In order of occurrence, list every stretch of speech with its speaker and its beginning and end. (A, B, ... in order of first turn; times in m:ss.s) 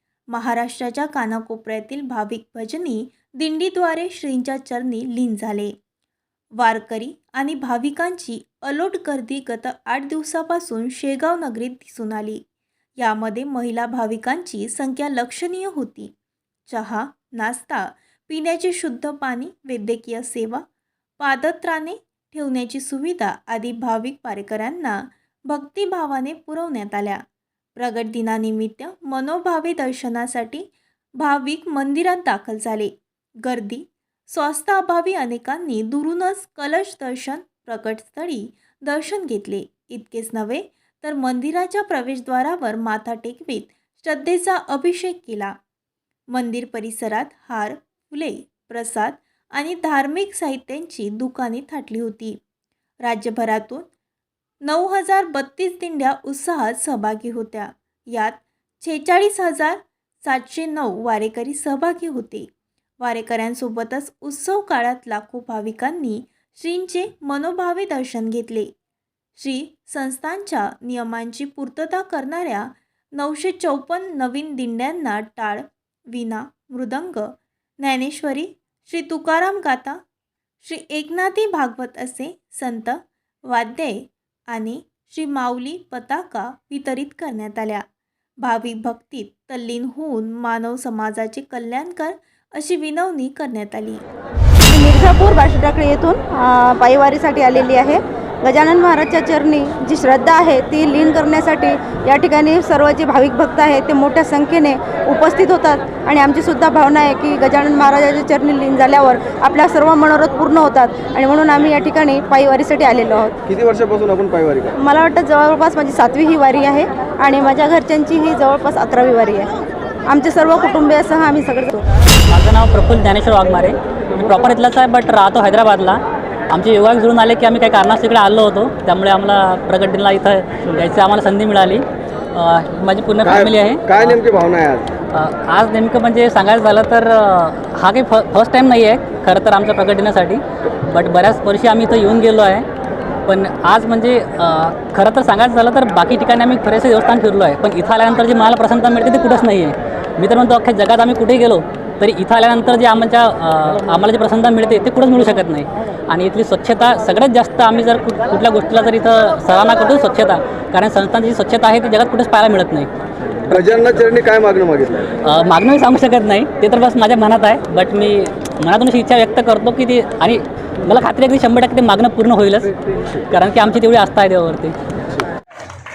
0:00.3-0:05.7 A
0:06.6-0:12.4 A
0:13.0-0:16.1 A
0:16.7-0:20.6 A
0:21.2-0:27.2 A
0:27.8-0:32.9 A
0:33.4-0:45.5 A
0:46.3-0:52.4 A
0:53.0-0:53.9 A
0:54.6-1:02.5 A
1:03.0-1:08.7 A
1:09.4-1:20.0 A
1:20.6-1:27.8 A
1:28.4-1:34.0 A
1:34.7-1:53.4 B
1:53.5-1:54.7 C
1:54.8-1:59.5 B
2:00.1-2:01.8 B
2:02.3-2:14.2 D
2:13.4-2:14.8 C
2:15.1-2:22.6 D
2:23.2-2:42.9 D
2:43.5-2:45.1 C
2:45.2-2:52.7 D
2:53.3-2:54.7 D